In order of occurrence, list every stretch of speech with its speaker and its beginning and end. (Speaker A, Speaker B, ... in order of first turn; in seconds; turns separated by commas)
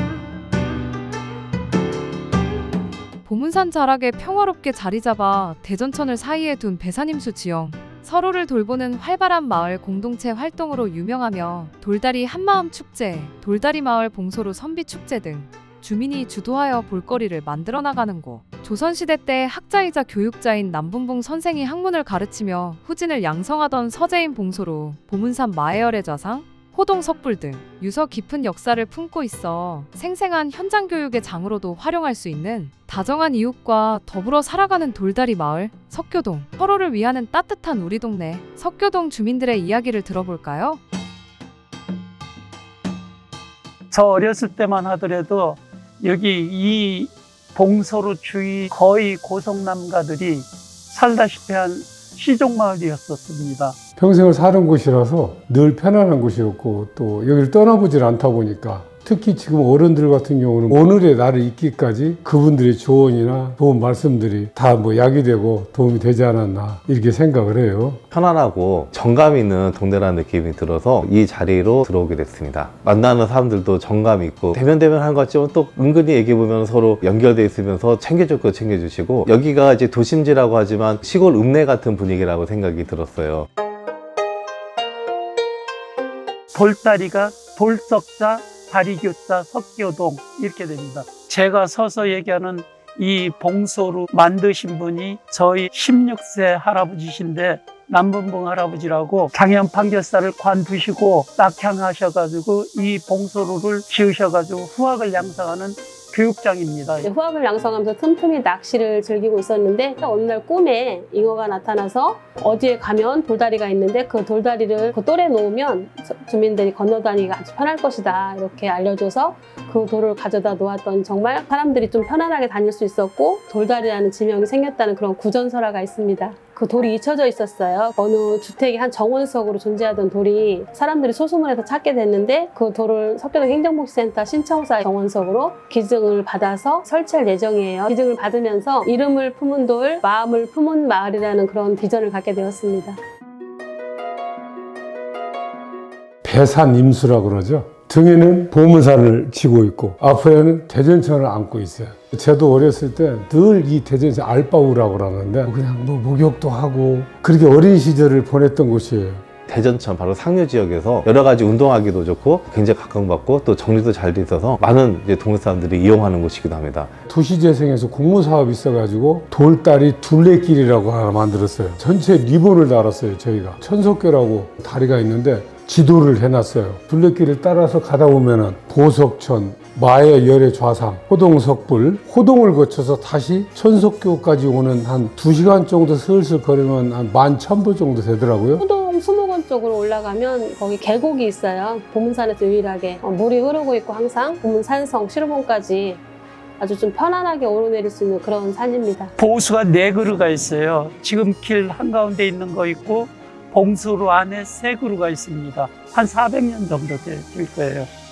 Speaker A: 3.2-40.8, Speaker B: 43.9-53.8, Speaker C: 54.0-68.0, Speaker D: 68.1-83.5, Speaker B: 86.5-107.1, Speaker E: 107.0-143.0, Speaker C: 146.2-159.2, Speaker D: 159.5-166.9, Speaker C: 167.1-188.6, Speaker E: 188.6-196.0, Speaker E: 196.6-199.1, Speaker B: 199.2-207.9